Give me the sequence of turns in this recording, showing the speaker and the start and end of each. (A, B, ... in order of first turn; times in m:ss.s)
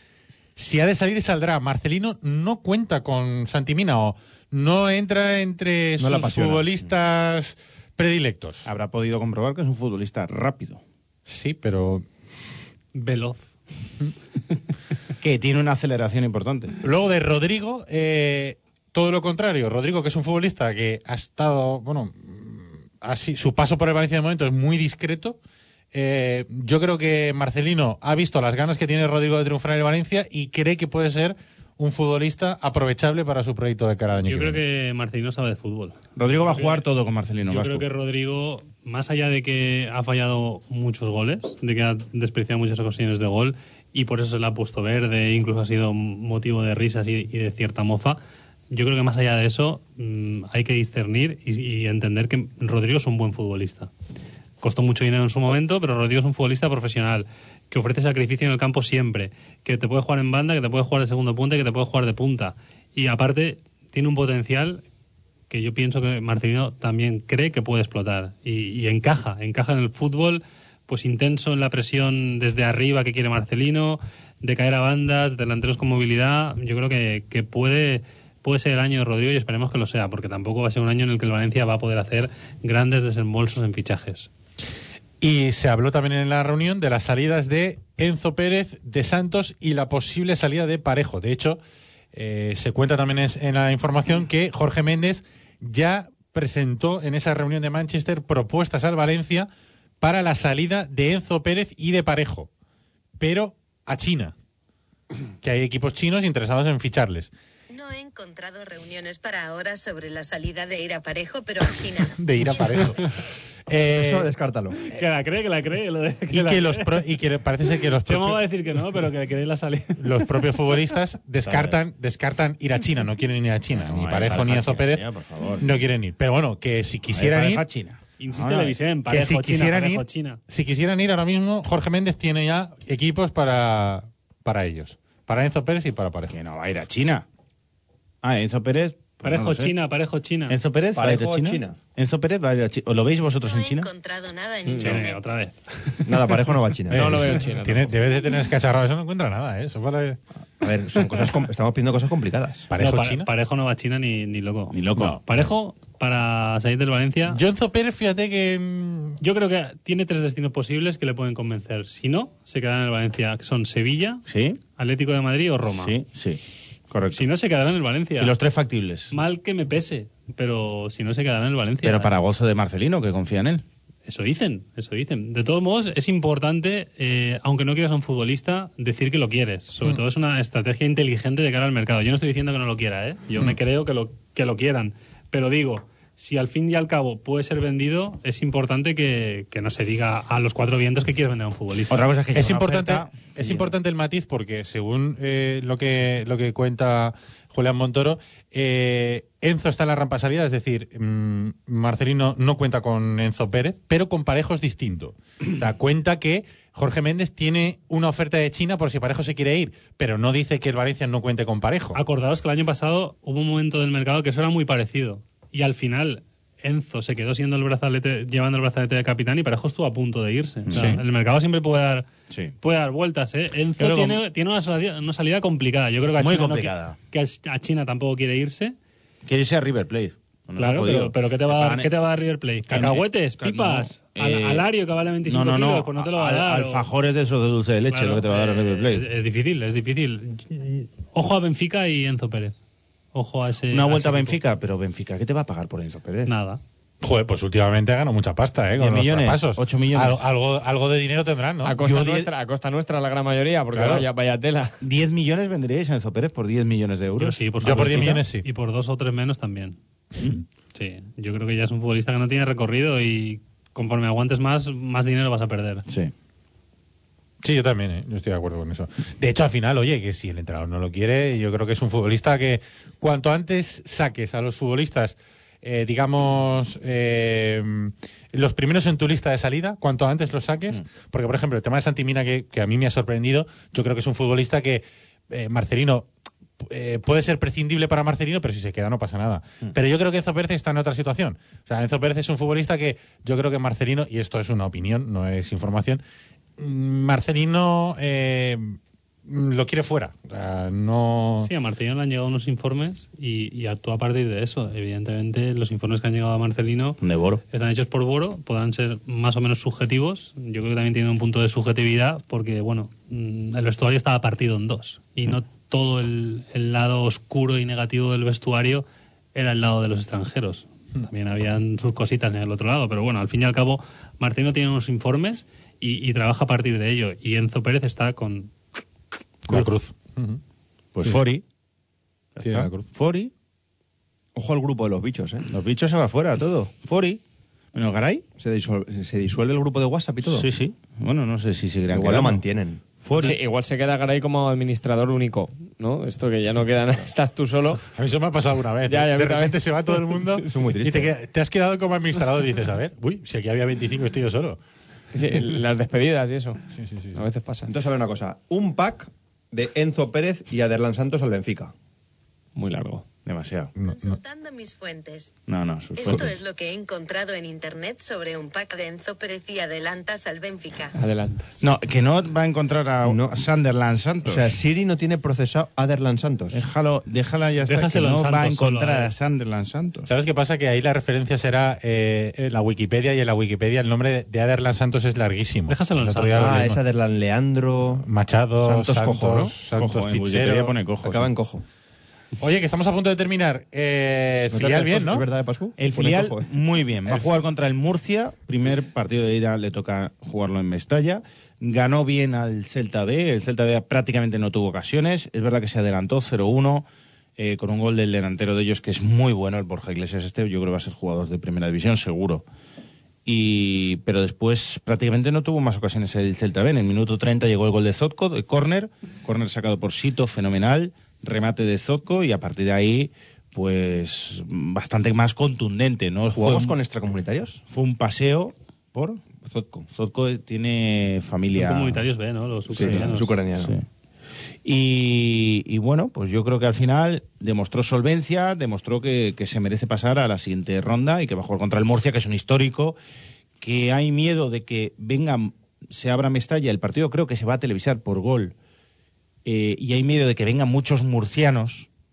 0:00.6-0:08.7 A
0:06.0-0:06.6 B
0:08.6-0:10.8 C
0:11.3-0:12.0 A
0:13.0-0:13.5 D
0:15.2-0:16.8 C
0:16.8-0:25.4 A
0:25.9-0:34.6 A
0:34.2-0:36.9 D
0:36.2-0:37.8 C
0:37.4-0:48.2 D
0:48.7-0:53.9 D
0:54.6-1:04.8 D
1:05.5-1:24.3 D
1:25.2-1:31.6 A
1:32.1-1:39.5 A
1:40.0-1:42.5 A
1:43.2-1:44.3 A
1:45.4-1:47.3 A
1:47.7-1:53.2 E
1:52.2-1:53.1 A
1:53.7-1:54.3 A
1:53.9-1:54.8 B
1:54.9-1:57.0 D
1:56.3-1:58.4 A
1:57.8-2:00.3 D
2:00.0-2:05.0 A
2:01.4-2:01.8 C
2:03.7-2:05.8 C
2:05.6-2:07.6 A
2:07.1-2:08.8 C
2:08.2-2:10.4 D
2:09.1-2:16.4 A
2:16.3-2:17.3 C
2:18.2-2:19.7 C
2:19.2-2:20.6 D
2:20.5-2:23.9 C
2:20.9-2:21.8 B
2:23.4-2:25.2 E
2:24.8-2:26.6 D
2:26.0-2:27.4 B
2:26.9-2:30.2 A
2:26.9-2:28.0 F
2:30.6-2:32.7 B
2:31.0-2:31.3 C
2:32.7-2:33.3 A
2:32.8-2:37.4 D
2:34.7-2:35.2 C
2:37.3-2:39.2 A
2:39.2-2:44.2 D
2:44.3-2:44.6 C
2:44.8-2:45.9 D
2:45.7-2:47.2 C
2:47.1-2:48.4 D
2:48.2-2:49.2 C
2:49.1-2:52.2 D
2:51.8-2:53.6 C
2:54.0-3:12.1 D
3:11.9-3:13.7 C
3:12.3-3:32.0 A
3:32.0-3:42.1 D
3:40.7-3:41.0 C
3:40.7-3:41.0 A
3:42.6-3:48.7 D
3:43.8-3:44.2 C
3:46.2-3:47.0 C
3:49.2-3:51.9 C
3:50.6-3:56.9 D
3:52.7-3:54.6 C
3:55.3-3:59.0 C
3:57.9-4:02.6 D
4:03.1-4:04.4 D
4:03.7-4:06.3 C
4:06.3-4:06.6 D
4:07.0-4:11.8 A
4:08.8-4:10.2 C
4:11.6-4:14.7 F
4:11.8-4:12.3 C
4:13.7-4:14.0 A
4:14.8-4:18.2 C
4:17.2-4:19.8 D
4:17.6-4:18.5 A
4:20.7-4:25.8 D
4:25.9-4:26.1 C
4:27.4-4:46.1 A
4:46.6-4:56.0 A
4:56.6-5:01.5 A
5:01.4-5:07.0 D
5:07.0-5:07.4 C
5:07.5-5:28.5 D
5:29.5-5:30.4 A
5:31.0-5:31.4 C
5:32.4-5:33.3 C
5:32.4-5:32.9 A
5:34.4-5:35.4 B
5:35.5-5:37.2 C
5:37.7-5:38.2 C
5:38.4-5:40.5 B
5:40.3-5:42.4 C
5:41.9-5:42.8 B
5:43.0-5:43.4 C
5:43.2-5:47.8 F
5:48.0-5:54.6 A
5:48.9-5:50.4 F
5:50.5-5:51.1 B
5:55.1-5:56.6 F
5:56.7-5:57.2 A
5:57.2-5:57.7 F
5:57.7-6:01.7 B
6:02.6-6:03.0 F
6:03.3-6:03.7 C
6:03.8-6:04.2 A
6:03.8-6:05.3 E
6:05.5-6:06.4 C
6:06.0-6:11.0 E
6:11.0-6:11.6 F
6:11.6-6:14.6 C
6:13.0-6:13.4 B
6:14.2-6:16.6 B
6:16.5-6:20.1 C
6:17.6-6:19.1 D
6:20.1-6:26.8 A
6:25.7-6:26.7 D
6:26.4-6:29.5 B
6:28.1-6:30.8 A
6:29.7-6:31.3 C
6:31.0-6:31.6 B
6:32.4-6:35.3 A
6:34.5-6:36.5 B
6:35.8-6:52.5 C
6:53.2-7:06.8 C
7:06.3-7:07.6 B
7:07.7-7:09.2 C
7:09.4-7:09.9 B
7:09.9-7:12.0 C
7:11.5-7:13.4 D
7:12.7-7:13.8 B
7:12.7-7:13.9 C
7:14.6-7:23.0 C
7:23.6-7:28.6 C
7:29.4-7:31.9 C